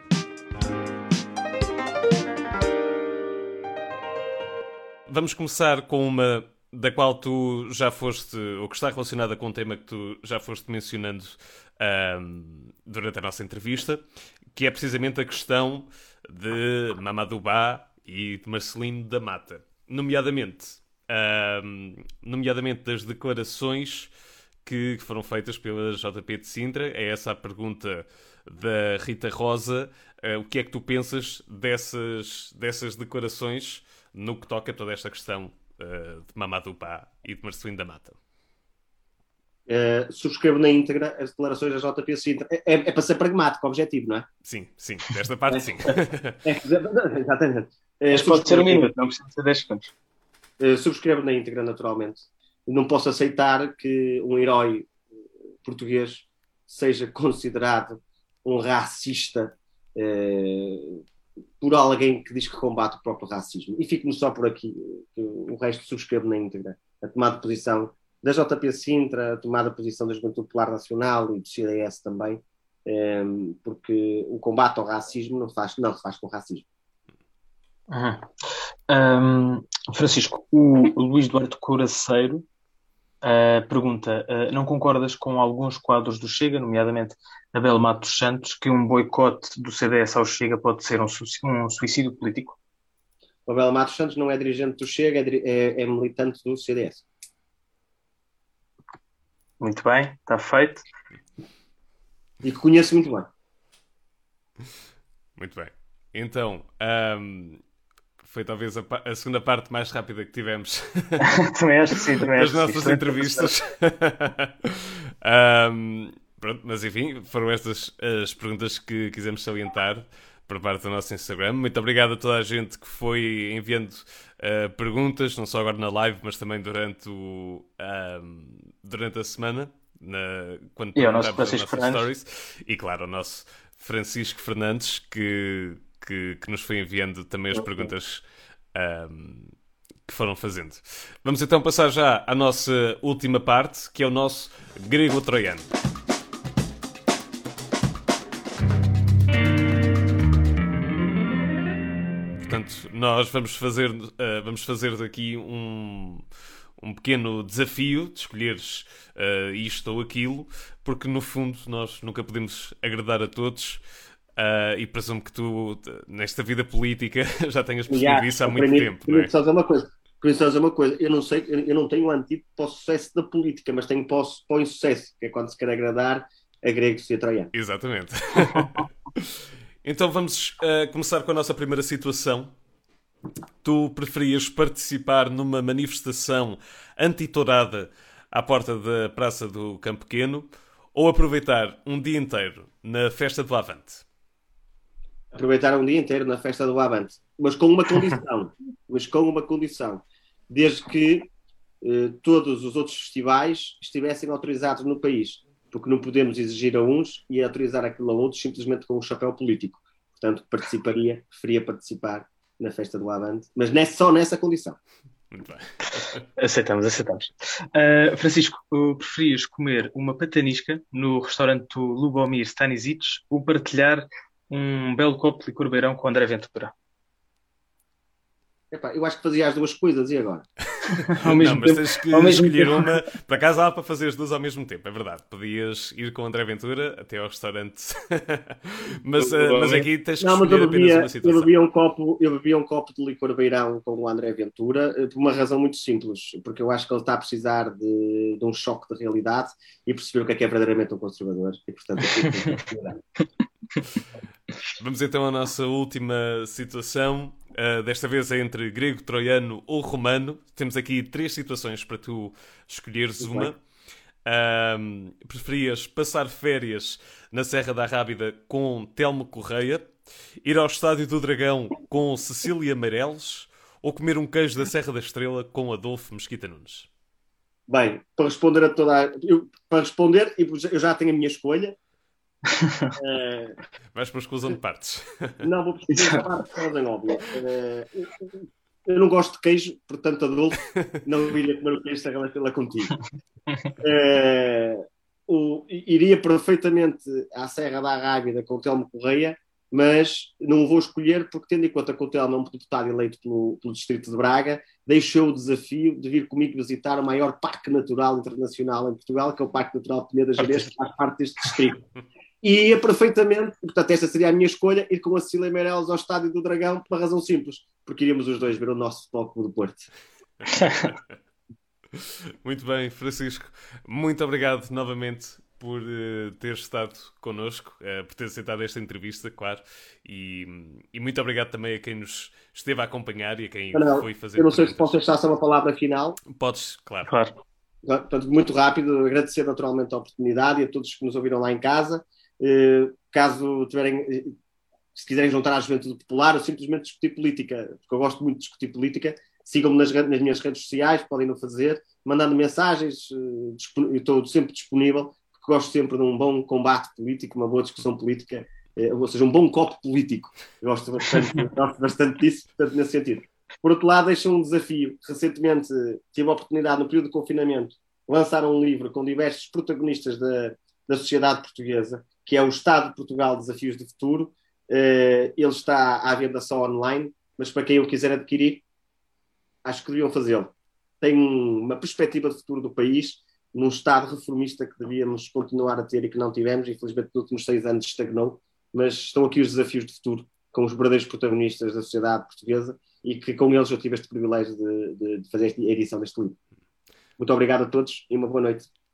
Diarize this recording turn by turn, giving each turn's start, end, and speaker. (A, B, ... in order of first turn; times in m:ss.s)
0:05.1-0:24.1 A
0:24.6-0:38.2 A
0:39.7-0:44.3 B
0:44.4-0:46.4 A
0:45.5-0:45.8 B
0:46.4-0:49.0 B
0:48.1-0:49.9 C
0:50.6-0:54.9 B
0:55.6-1:01.0 B
1:01.6-1:16.6 B
1:17.9-1:18.3 C
1:18.9-1:22.4 C
1:23.2-1:32.6 C
1:33.4-1:37.0 B
1:39.6-1:40.8 C
1:42.4-1:43.3 B
1:45.4-1:47.6 A
1:48.2-1:51.3 A
1:51.2-1:53.5 C
1:52.3-2:18.2 A
2:11.0-2:12.0 C
2:17.6-2:17.9 C
2:18.7-2:19.5 A
2:20.0-2:25.7 A
2:32.4-2:36.2 A
2:36.8-2:43.8 A
2:44.4-2:49.3 A
2:47.9-2:57.5 B
2:57.5-3:02.5 A
3:03.6-3:14.0 A
3:15.3-3:21.3 B
3:21.8-3:34.8 B
3:35.3-3:36.2 A
3:36.4-3:46.7 C
3:48.7-3:50.4 B
3:51.1-4:01.5 A
3:51.2-3:52.9 C
3:59.2-3:59.9 C
4:00.2-4:13.0 B
4:14.8-4:23.6 A
4:23.2-4:23.5 B
4:24.2-4:29.9 A
4:30.4-4:36.9 A
4:37.7-4:41.8 B
4:42.5-4:42.9 C
4:43.0-4:43.6 B
4:43.9-4:45.5 A
4:45.4-4:53.0 B
4:45.9-4:46.2 C
4:53.8-5:11.8 B
5:12.4-5:19.9 B
5:20.5-5:20.9 C
5:22.0-5:34.9 A
5:33.7-5:36.2 B
5:36.3-5:37.1 A
5:37.1-5:37.3 C
5:37.8-5:44.3 B
5:44.9-6:18.6 B
6:19.6-6:36.4 B
6:37.2-6:38.7 B